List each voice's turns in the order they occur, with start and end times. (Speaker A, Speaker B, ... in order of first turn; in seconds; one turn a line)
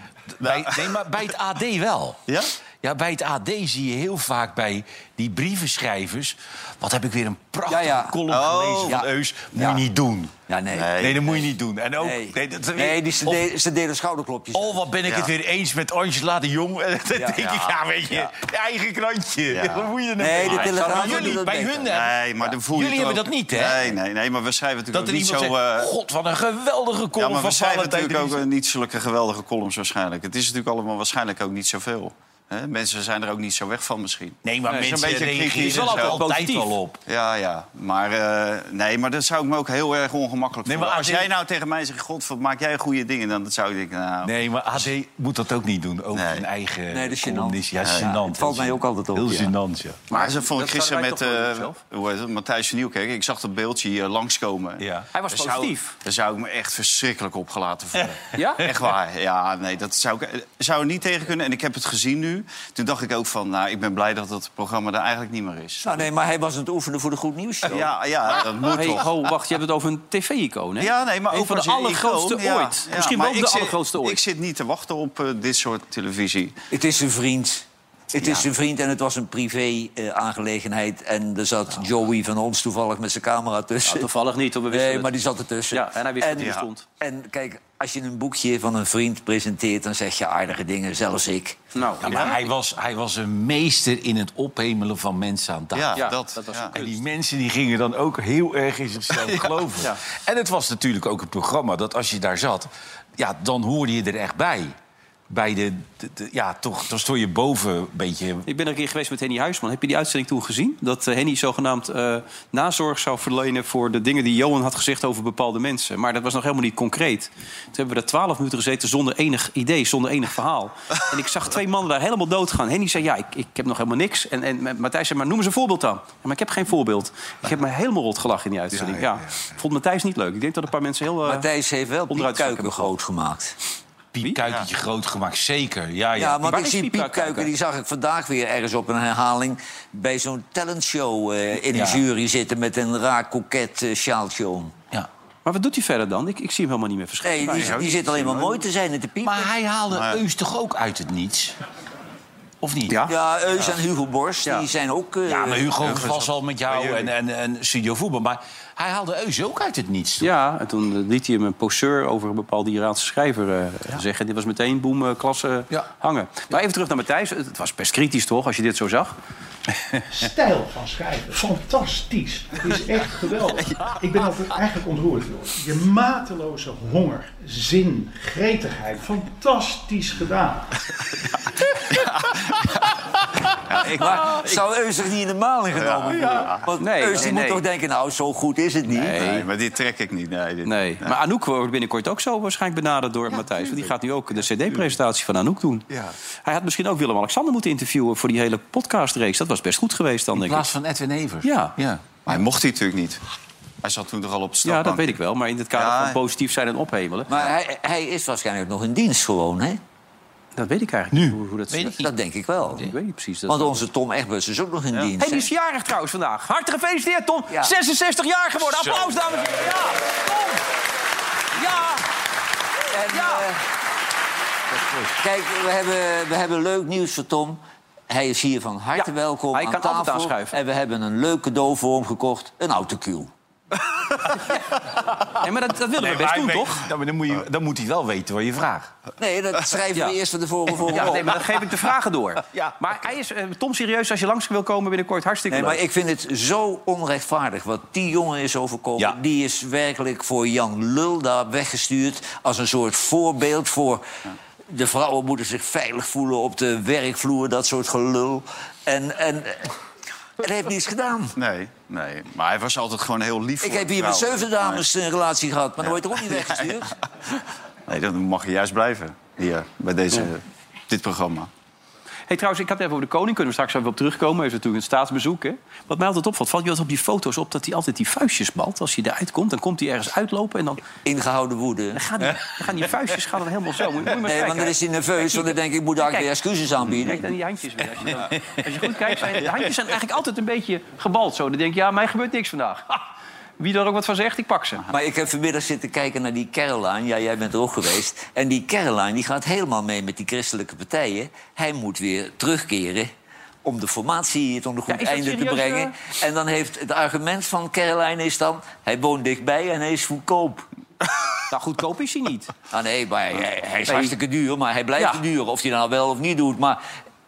Speaker A: 0.4-2.2
Speaker B: 0.4-1.0
Speaker B: 2.3-2.5
Speaker A: 2.8-10.3
Speaker C: 7.7-8.2
Speaker B: 8.3-9.8
Speaker C: 10.5-11.4
Speaker B: 10.7-11.3
Speaker A: 11.0-13.5
Speaker C: 12.0-14.8
Speaker A: 14.5-24.0
Speaker B: 15.1-15.3
Speaker C: 17.1-17.7
Speaker B: 19.5-25.9
Speaker C: 20.2-21.9
Speaker A: 24.9-28.4
Speaker B: 27.2-36.2
Speaker A: 34.4-37.0
Speaker D: 35.7-36.7
Speaker B: 37.1-44.9
Speaker A: 40.6-41.3
Speaker A: 44.2-50.1
Speaker B: 46.1-46.5
Speaker C: 46.9-49.5
Speaker B: 47.8-48.1
Speaker D: 50.1-51.8
Speaker B: 50.1-66.0
Speaker A: 54.8-55.1
Speaker D: 55.1-55.9
Speaker A: 58.0-58.7
Speaker D: 58.4-58.6
Speaker C: 65.8-67.9
Speaker B: 67.7-69.1
Speaker D: 68.7-74.2
Speaker B: 70.8-76.6
Speaker C: 76.7-84.1
Speaker B: 78.2-78.5
Speaker D: 83.8-85.2
Speaker C: 84.7-91.6
Speaker D: 85.7-86.8
Speaker B: 86.4-86.7
Speaker D: 91.7-92.3
Speaker A: 92.0-96.1
Speaker B: 92.1-92.3
Speaker B: 95.7-96.8
Speaker D: 96.0-97.0
Speaker A: 96.7-104.8
Speaker B: 99.2-99.6
Speaker A: 105.3-108.5
Speaker D: 108.5-131.5
Speaker A: 128.8-129.1
Speaker C: 131.2-133.6
Speaker D: 132.1-132.9
Speaker A: 134.1-136.4
Speaker C: 136.2-144.8
Speaker D: 136.4-137.5
Speaker A: 141.7-142.0
Speaker D: 145.4-148.2
Speaker C: 147.2-149.5
Speaker A: 149.2-151.6
Speaker B: 149.9-150.2
Speaker A: 152.6-153.1
Speaker C: 153.1-155.7
Speaker A: 155.3-160.3
Speaker B: 155.8-157.1
Speaker D: 160.2-169.1
Speaker E: 170.1-180.7
Speaker B: 173.6-174.0
Speaker B: 181.9-182.8
Speaker B: 183.7-184.2
Speaker C: 183.8-189.2
Speaker B: 185.7-186.7
Speaker D: 186.8-187.6
Speaker D: 188.9-189.5
Speaker B: 189.2-191.2
Speaker D: 190.7-195.8
Speaker D: 196.4-200.6
Speaker A: 200.3-202.4
Speaker D: 201.4-201.7
Speaker B: 202.3-203.2
Speaker B: 203.8-205.2
Speaker D: 204.7-207.3
Speaker B: 205.7-206.2
Speaker C: 207.3-209.8
Speaker D: 210.6-212.0
Speaker A: 211.1-211.9
Speaker C: 211.7-212.9
Speaker D: 212.8-213.8
Speaker C: 213.5-215.5
Speaker D: 215.2-220.6
Speaker A: 218.7-219.5
Speaker D: 221.5-222.1
Speaker C: 222.9-223.6
Speaker D: 223.1-223.4
Speaker A: 224.7-225.1
Speaker C: 225.2-233.3
Speaker D: 228.9-230.6
Speaker D: 235.4-236.8
Speaker A: 236.0-238.9
Speaker C: 239.2-241.4
Speaker D: 240.8-245.8
Speaker C: 245.5-254.0
Speaker C: 254.7-259.7
Speaker C: 260.4-261.4
Speaker B: 261.4-264.8
Speaker C: 263.6-266.9
Speaker B: 265.8-266.7
Speaker B: 267.9-271.5
Speaker D: 272.3-280.8
Speaker C: 281.0-282.0
Speaker D: 282.0-286.3
Speaker C: 284.2-287.2
Speaker D: 287.0-293.0
Speaker A: 288.0-288.5
Speaker D: 293.6-294.8
Speaker C: 294.9-303.1
Speaker C: 303.6-310.6
Speaker D: 304.9-305.9
Speaker D: 311.5-312.5
Speaker C: 312.7-316.8
Speaker D: 313.9-314.1
Speaker D: 315.0-315.2